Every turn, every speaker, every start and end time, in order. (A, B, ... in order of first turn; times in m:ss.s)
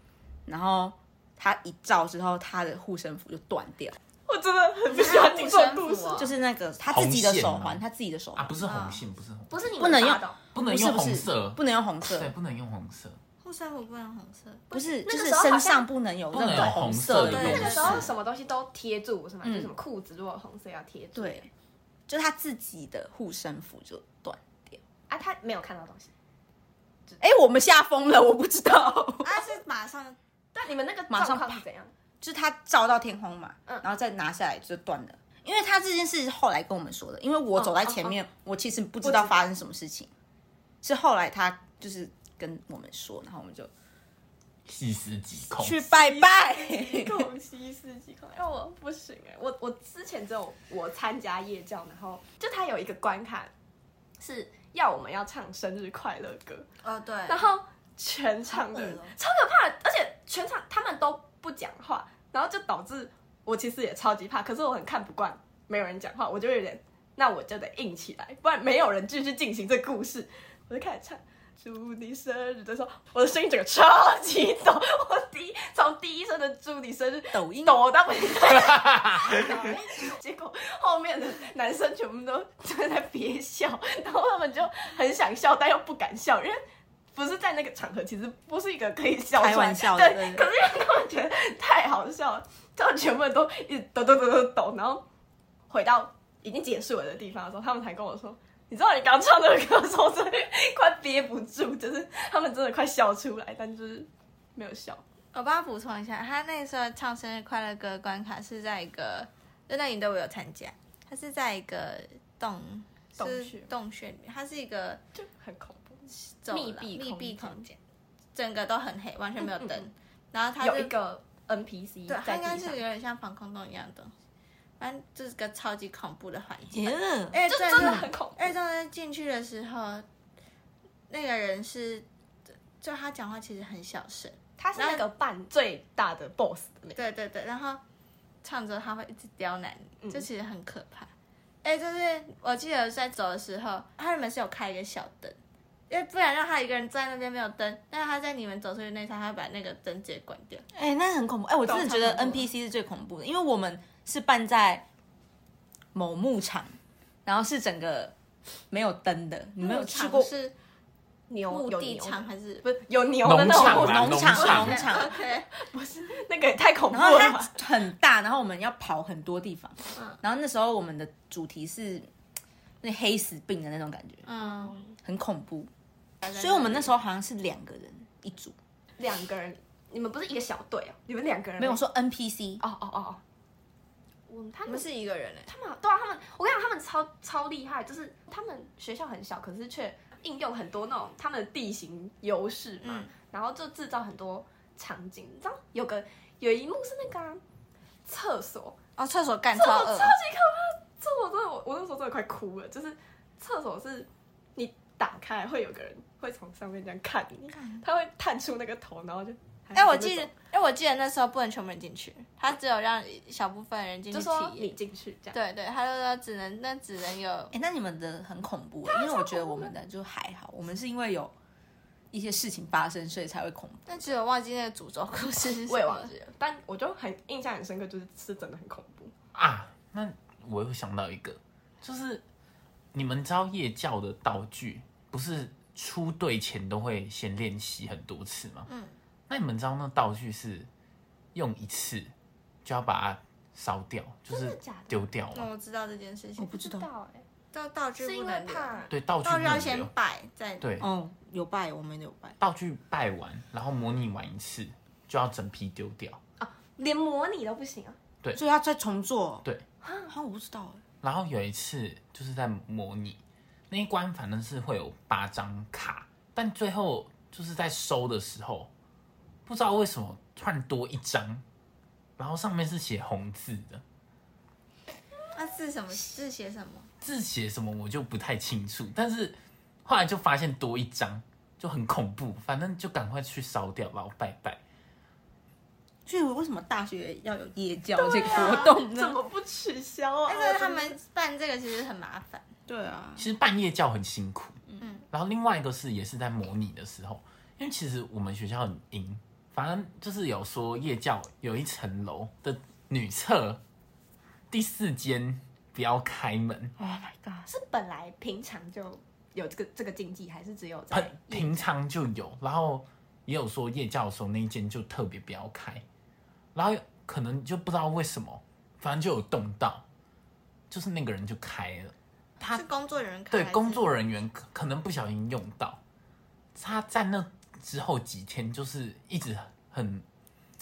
0:00.5-0:04.0 A
0:04.3-0:06.3 B
0:04.9-0:06.3 C
0:06.2-0:08.5 A
0:06.9-0:07.8 D
0:08.4-0:09.7 D
0:08.6-0:09.0 C
0:09.5-0:10.4 B
0:09.8-0:12.3 A
0:10.5-0:13.2 D
0:13.4-0:14.6 C
0:14.7-0:15.9 B
0:14.7-0:18.1 A
0:16.3-0:18.1 D
0:17.2-0:21.5 B
0:17.2-0:18.1 C
0:19.4-0:19.7 A
0:21.2-0:21.4 A
0:22.1-0:24.8 A
0:25.1-0:26.1 B
0:27.2-0:29.4 A
0:29.2-0:30.2 C
0:30.5-0:31.9 B
0:31.1-0:31.6 A
0:32.2-0:40.1 A
0:37.6-0:38.2 B
0:39.0-0:39.3 B
0:40.8-0:43.7 A
0:44.7-0:45.8 D
0:45.5-0:47.3 A
0:45.9-0:53.5 B
0:54.2-0:56.7 B
0:56.8-0:57.4 C
0:57.2-1:26.6 B
1:17.3-1:17.8 A
1:18.7-1:19.4 D
1:27.1-1:35.0 B
1:29.4-1:30.4 A
1:35.7-1:45.0 B
1:45.3-1:55.0 C
1:53.2-1:53.7 B
1:55.2-1:57.6 B
1:56.4-1:57.8 C
1:58.3-2:00.9 C
1:59.4-1:59.9 B
2:00.6-2:02.8 B
2:02.1-2:04.1 C
2:04.8-2:10.0 C
2:06.7-2:08.0 A
2:07.4-2:08.5 B
2:11.1-2:12.1 C
2:12.8-2:15.0 C
2:14.6-2:17.0 B
2:17.0-2:17.8 C
2:18.4-2:21.1 C
2:21.6-2:25.4 C
2:25.9-2:30.6 C
2:30.7-2:34.8 A
2:31.7-2:32.5 B
2:35.9-2:38.1 A
2:38.7-2:40.3 A
2:39.6-2:40.5 C
2:41.3-2:47.6 B
2:41.5-2:42.6 C
2:43.2-2:44.8 D
2:43.5-2:45.1 A
2:44.7-2:45.5 C
2:46.9-2:52.1 A
2:52.8-2:54.3 A
2:54.2-2:54.8 C
2:54.4-2:54.9 B
2:55.0-2:55.7 A
2:56.2-2:58.5 A
2:59.0-3:01.8 B
3:01.6-3:02.6 A
3:02.6-3:03.2 B
3:04.3-3:04.9 B
3:04.6-3:05.5 C
3:05.5-3:17.4 B
3:12.8-3:13.1 C
3:18.0-3:18.8 B
3:19.0-3:20.2 C
3:19.5-3:30.3 B
3:29.7-3:34.7 C
3:34.1-3:35.4 B
3:35.3-3:37.5 C
3:37.5-3:41.3 A
3:39.1-3:39.6 B
3:42.1-3:44.1 A
3:43.9-3:46.1 C
3:45.7-3:49.1 B
3:49.3-3:52.2 D
3:52.9-3:58.7 D
3:58.7-3:58.9 C
3:59.3-4:00.7 D
4:01.3-4:02.1 D
4:02.6-4:05.5 D
4:04.3-4:05.1 B
4:05.3-4:06.6 C
4:06.4-4:06.9 A
4:06.5-4:07.2 B
4:07.5-4:10.6 C
4:08.0-4:08.9 B
4:08.9-4:09.9 D
4:10.6-4:10.9 D
4:10.8-4:12.4 A
4:12.4-4:16.2 D
4:16.4-4:18.0 B
4:18.3-4:19.4 A
4:19.8-4:20.1 B
4:20.1-4:20.8 A
4:21.0-4:28.7 D
4:29.4-4:31.4 D
4:32.2-4:33.8 D
4:35.3-4:36.9 C
4:37.0-4:44.6 D
4:46.0-4:49.2 A
4:48.0-4:51.0 B
4:50.3-4:52.4 C
4:52.7-4:53.3 A
4:53.2-5:03.6 D
5:04.5-5:06.7 D
5:06.8-5:07.5 A
5:07.5-5:11.7 B
5:10.9-5:15.8 D
5:16.5-5:19.8 D
5:20.7-5:21.9 D
5:22.4-5:23.9 C
5:23.3-5:25.8 D
5:26.5-5:30.0 D